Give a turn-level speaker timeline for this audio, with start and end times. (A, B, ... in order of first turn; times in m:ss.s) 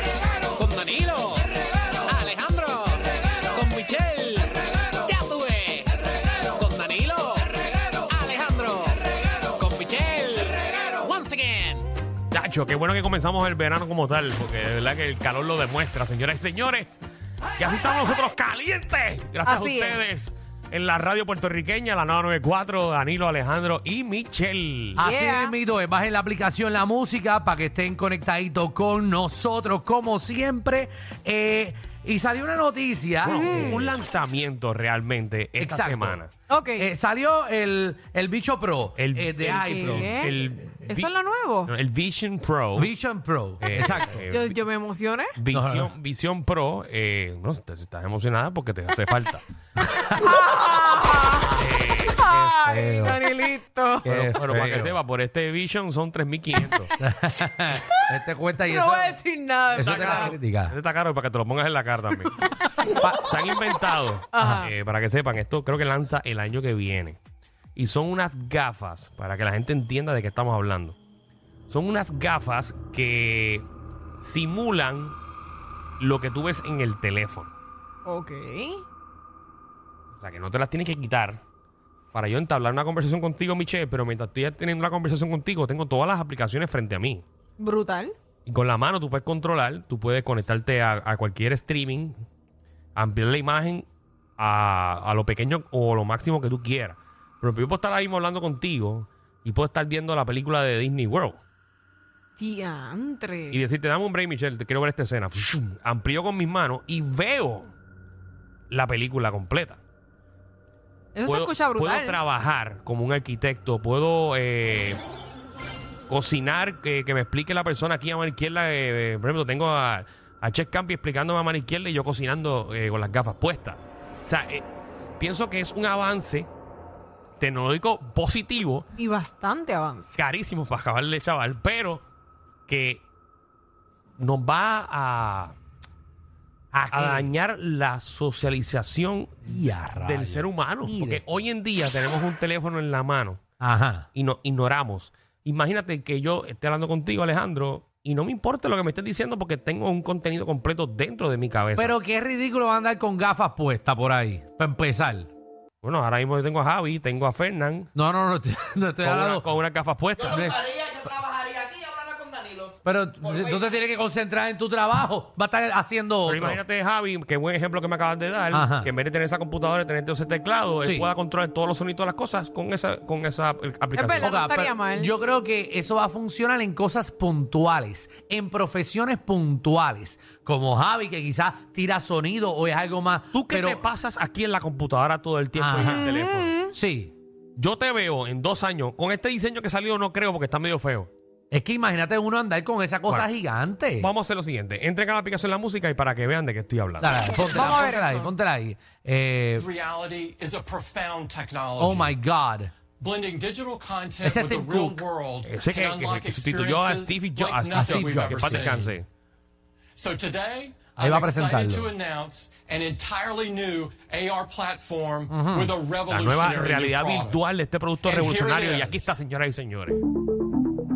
0:00.5-0:11.9 A
0:12.3-0:17.0 B
0:17.6-0:25.0 B
0:19.4-0:20.0 C
0:25.0-0:33.8 D
0:25.0-0:25.5 C
0:33.2-0:36.3 B
0:33.3-0:34.0 C
0:35.6-0:36.2 D
0:36.5-0:36.9 C
0:36.8-0:40.1 D
0:38.9-0:41.1 B
0:39.6-0:40.3 C
0:40.8-0:41.7 C
0:41.6-0:42.9 B
0:42.7-0:44.2 D
0:43.6-0:44.6 B
0:44.3-0:45.4 C
0:45.3-0:49.4 B
0:45.5-0:45.9 D
0:49.9-0:50.3 D
0:50.2-0:51.6 C
0:51.5-0:52.5 B
0:52.1-0:54.0 C
0:52.5-0:53.2 D
0:54.0-0:55.0 D
0:54.0-0:56.9 B
0:57.0-1:00.8 D
0:58.6-1:00.3 C
0:59.8-1:02.3 B
1:02.4-1:03.0 C
1:02.9-1:03.2 D
1:03.2-1:07.2 B
1:04.3-1:04.7 C
1:04.4-1:04.6 D
1:07.8-1:11.0 B
1:11.7-1:13.6 B
1:14.2-1:15.2 B
1:16.0-1:17.5 B
1:18.0-1:18.8 C
1:20.2-1:21.4 B
1:22.1-1:27.2 B
1:27.6-1:28.1 C
1:28.4-1:32.2 B
1:33.0-1:33.9 B
1:34.4-1:41.4 B
1:42.4-1:43.6 C
1:43.5-1:47.7 B
1:48.7-1:49.8 B
1:51.1-1:52.2 C
1:51.2-1:55.0 B
1:56.1-2:04.6 B
2:05.2-2:06.5 B
2:07.4-2:08.9 B
2:09.0-2:10.2 C
2:10.1-2:12.0 B
2:12.7-2:13.0 B
2:14.2-2:15.5 B
2:16.7-2:17.3 D
2:16.9-2:23.4 B
2:19.4-2:21.2 D
2:23.6-2:24.0 D
2:24.1-2:32.0 B
2:31.8-2:35.3 D
2:35.8-2:37.9 B
2:37.9-2:39.5 D
2:39.0-2:40.6 B
2:40.2-2:41.1 D
2:42.8-2:46.6 D
2:46.2-2:54.4 B
2:48.5-2:48.9 D
2:50.8-2:51.1 D
2:54.0-2:55.1 C
2:54.2-3:03.8 D
3:03.3-3:06.6 B
3:05.5-3:06.2 D
3:05.9-3:06.7 C
3:06.7-3:07.1 D
3:07.6-3:11.1 B
3:11.5-3:14.1 D
3:14.0-3:17.4 B
3:17.0-3:19.7 D
3:17.4-3:18.3 C
3:19.6-3:22.2 E
3:21.8-3:22.7 D
3:23.0-3:29.0 E
3:24.2-3:25.0 D
3:25.4-3:29.0 B
3:27.7-3:28.7 D
3:30.0-3:37.4 E
3:31.0-3:31.9 D
3:35.3-3:35.8 D
3:36.1-3:40.0 B
3:38.0-3:39.2 E